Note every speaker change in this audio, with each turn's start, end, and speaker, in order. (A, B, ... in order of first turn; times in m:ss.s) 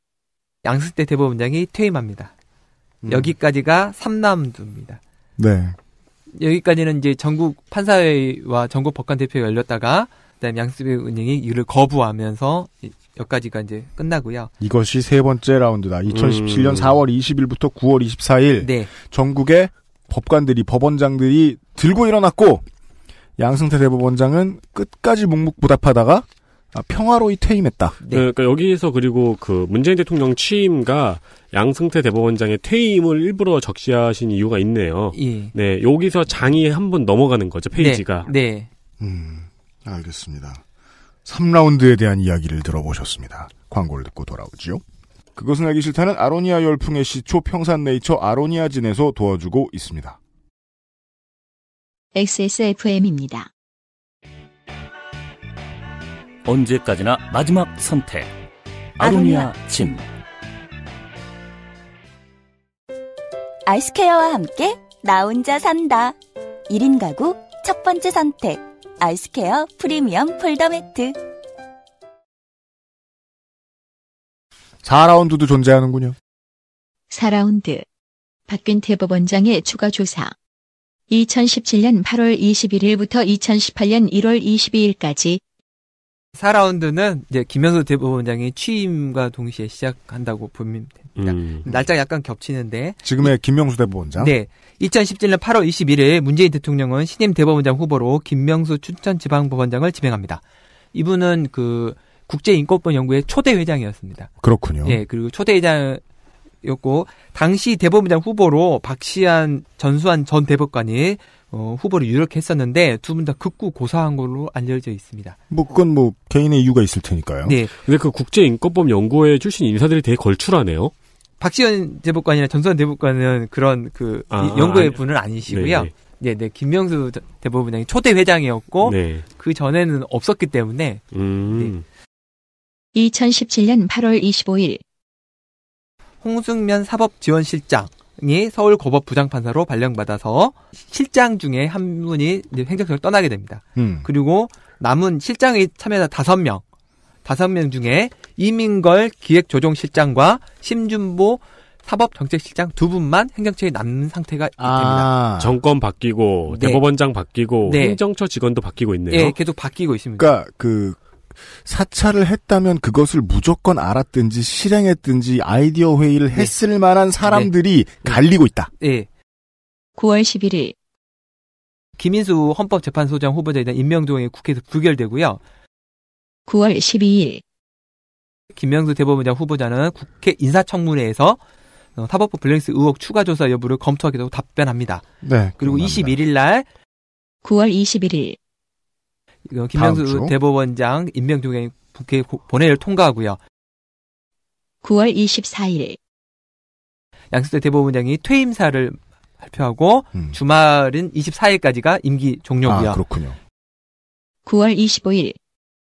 0:00.6-0:02.3 A
0:03.0-0:03.3 B
0:03.1-0:05.0 A
0:05.4-0:05.8 B
0:06.4-0:14.5 A
0:14.6-0:22.6 B
0:16.1-0:16.9 C
0:18.6-0:18.9 A
0:23.4-0:28.0 B
0:28.1-0:38.3 C
0:35.1-0:35.5 A
0:37.7-0:38.7 A
0:39.0-0:40.6 B
0:41.2-0:44.8 B
0:45.4-0:50.2 B
0:52.1-0:53.5 D
0:56.4-0:58.3 E
0:59.0-1:00.0 E
0:59.0-0:59.5 F
1:03.7-1:06.2 F
1:06.7-1:11.2 F
1:14.8-1:16.2 B
1:17.1-1:17.8 D
1:18.5-1:20.3 D
1:21.1-1:25.4 D
1:26.3-1:33.3 A
1:31.2-1:31.6 C
1:33.0-1:34.3 B
1:34.2-1:40.4 A
1:40.9-1:44.3 A
1:44.4-1:45.0 B
1:44.8-1:46.0 A
1:46.6-1:55.4 A
1:55.5-1:57.6 B
1:57.4-1:57.7 A
1:57.8-2:00.9 C
2:01.4-2:11.0 A
2:04.3-2:05.9 C
2:08.8-2:09.2 C
2:11.1-2:11.8 C
2:12.9-2:14.8 D
2:16.2-2:26.6 A
2:23.8-2:24.1 B
2:27.2-2:35.1 A
2:34.6-2:35.6 B
2:35.4-2:39.3 C
2:36.5-2:36.8 A
2:37.6-2:38.0 A
2:39.1-2:40.3 A
2:40.2-2:41.0 B
2:41.6-2:48.7 B
2:47.2-2:47.5 A
2:48.8-2:49.1 A
2:50.0-2:50.7 D
2:52.0-2:55.4 A
2:56.5-2:57.4 D
2:58.5-3:01.4 A
3:02.0-3:05.0 A
3:05.2-3:06.1 B
3:05.6-3:06.6 A
3:07.4-3:08.4 D
3:09.5-3:13.4 A
3:09.7-3:10.3 B
3:14.8-3:16.0 D
3:17.3-3:23.0 A
3:22.6-3:23.4 B
3:24.4-3:25.4 D